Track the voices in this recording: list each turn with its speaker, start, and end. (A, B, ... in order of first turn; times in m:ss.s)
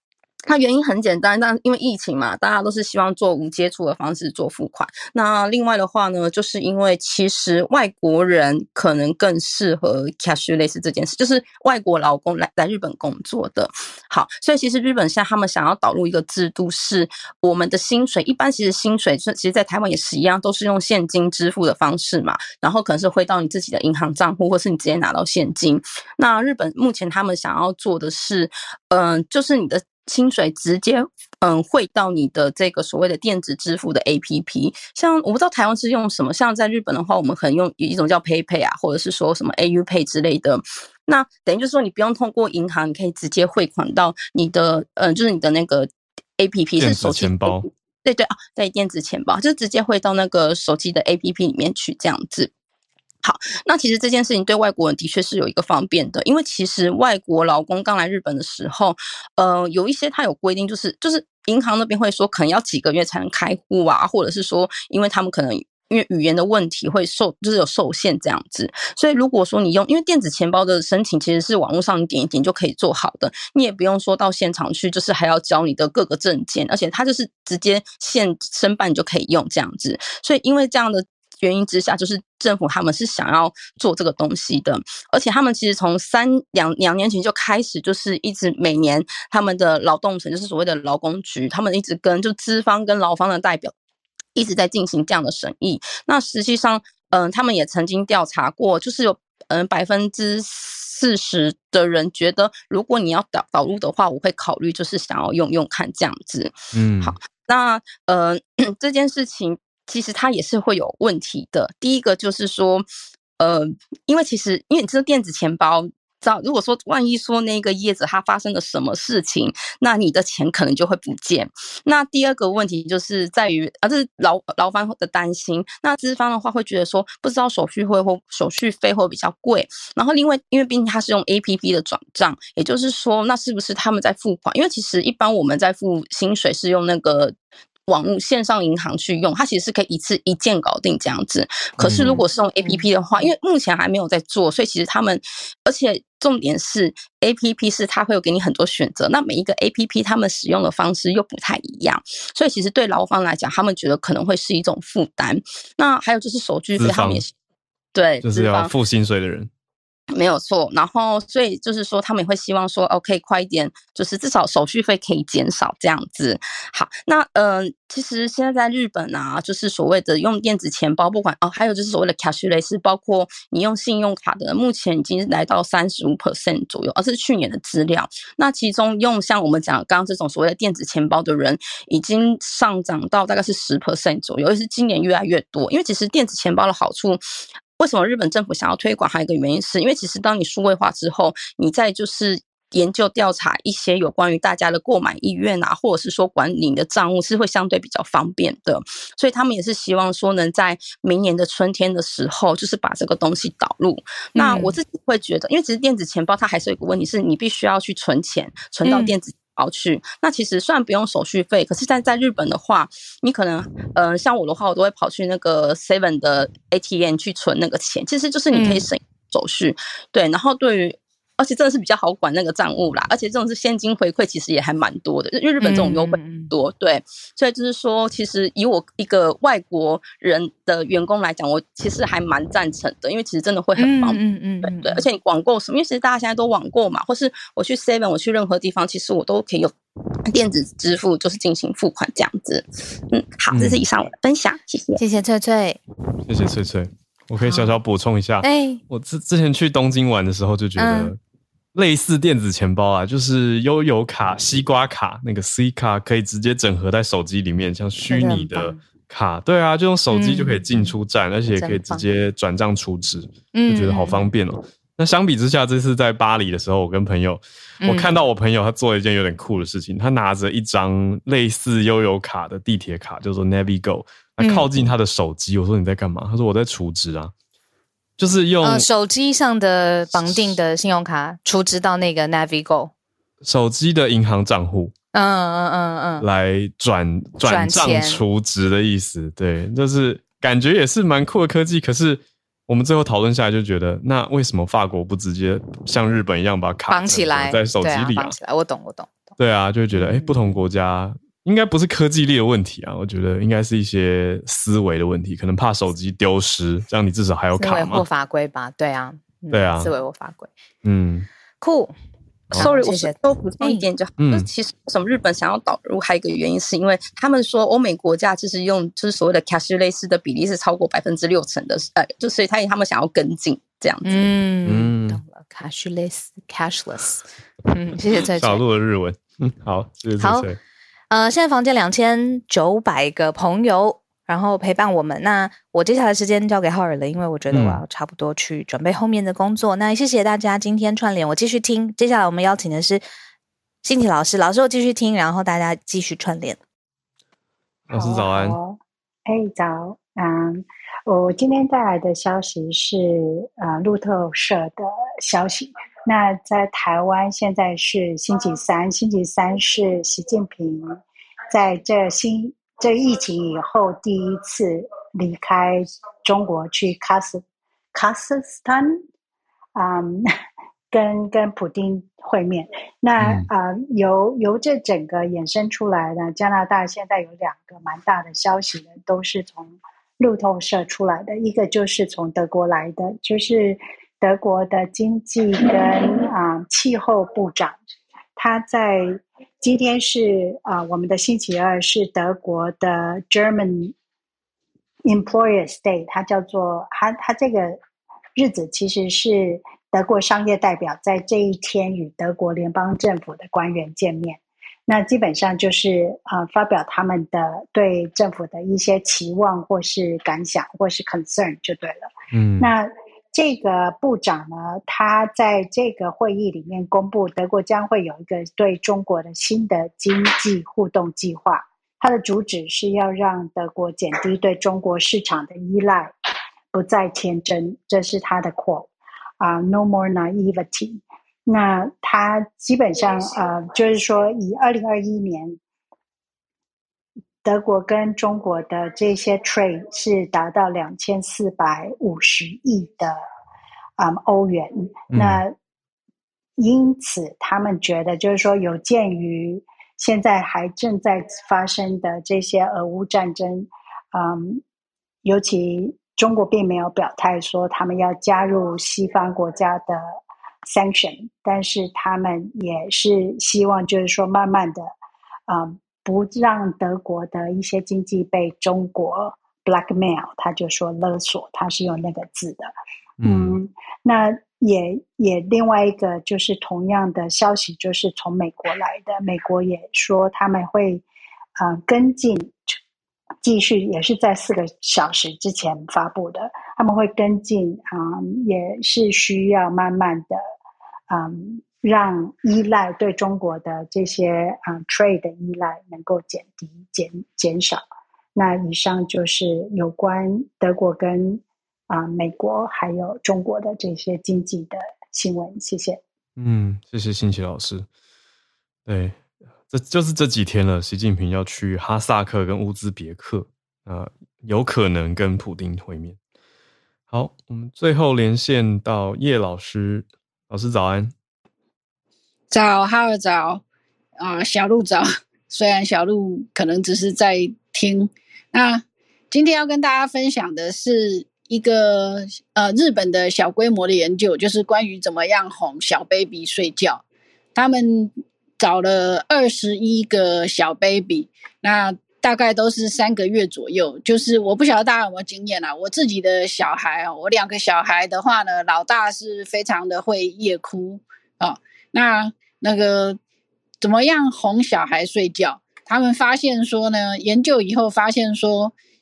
0:00.5-0:52.5 A
0:46.8-0:47.7 B
0:53.2-1:33.7 A
1:34.4-1:52.9 A
1:46.7-1:47.2 B
1:53.4-2:17.4 A
2:17.9-2:37.3 A
2:21.8-2:22.1 B
2:22.0-2:22.8 C
2:36.8-2:37.2 B
2:38.0-2:38.7 A
2:38.2-2:39.5 B
2:40.1-3:07.2 A
3:07.8-3:59.7 A
3:24.4-3:24.8 C
3:28.8-3:29.1 C
3:38.5-3:38.8 C
3:45.6-3:46.5 C
3:53.8-3:55.0 C
4:00.3-4:05.0 A
4:03.5-4:03.8 B
4:05.0-4:05.8 C
4:06.3-4:11.2 B
4:07.4-4:07.7 C
4:08.4-4:08.8 C
4:10.8-4:11.1 C
4:11.7-4:37.3 B
4:18.1-4:18.8 C
4:20.1-4:20.9 C
4:21.6-4:22.0 C
4:23.5-4:24.2 C
4:27.8-4:28.1 C
4:34.4-4:34.7 C
4:38.2-4:38.9 B
4:38.6-4:42.9 C
4:40.1-4:40.6 B
4:43.4-4:44.9 B
4:45.1-4:46.3 C
4:46.2-4:58.4 B
4:47.4-4:48.2 C
4:56.9-4:59.4 C
4:59.4-5:08.0 B
4:59.9-5:00.4 C
5:07.5-5:10.5 C
5:09.5-5:09.9 B
5:10.8-5:11.3 B
5:11.6-5:11.9 C
5:12.5-5:24.3 A
5:12.5-5:13.8 C
5:14.2-5:14.5 B
5:24.0-5:28.6 C
5:24.7-5:25.2 B
5:28.4-5:30.6 B
5:30.2-5:30.5 C
5:31.1-5:43.0 C
5:37.5-5:37.8 B
5:43.8-5:46.6 C
5:47.9-5:48.6 B
5:47.9-6:01.0 D
6:01.5-6:07.4 D
6:07.9-6:09.0 D
6:09.8-6:10.3 D
6:10.9-6:27.8 D
6:13.2-6:13.5 B
6:28.4-6:33.9 D
6:35.1-6:37.8 D
6:38.4-7:06.1 D
6:52.3-6:52.7 B
7:06.7-7:15.6 D
7:17.4-7:23.2 D
7:24.0-7:25.5 D
7:25.1-7:25.4 B
7:26.6-7:34.6 D
7:35.2-7:44.9 D
7:45.5-7:52.7 D
7:53.2-7:53.6 B
7:53.2-8:01.0 D
8:01.6-8:02.8 D
8:03.4-8:10.4 D
8:11.1-8:17.8 D
8:18.4-8:26.0 D
8:26.4-8:27.9 B
8:28.9-8:36.2 B
8:37.1-8:41.1 B
8:42.5-8:43.6 E
8:44.2-8:57.0 E
8:57.6-9:13.2 E
9:13.8-9:18.7 E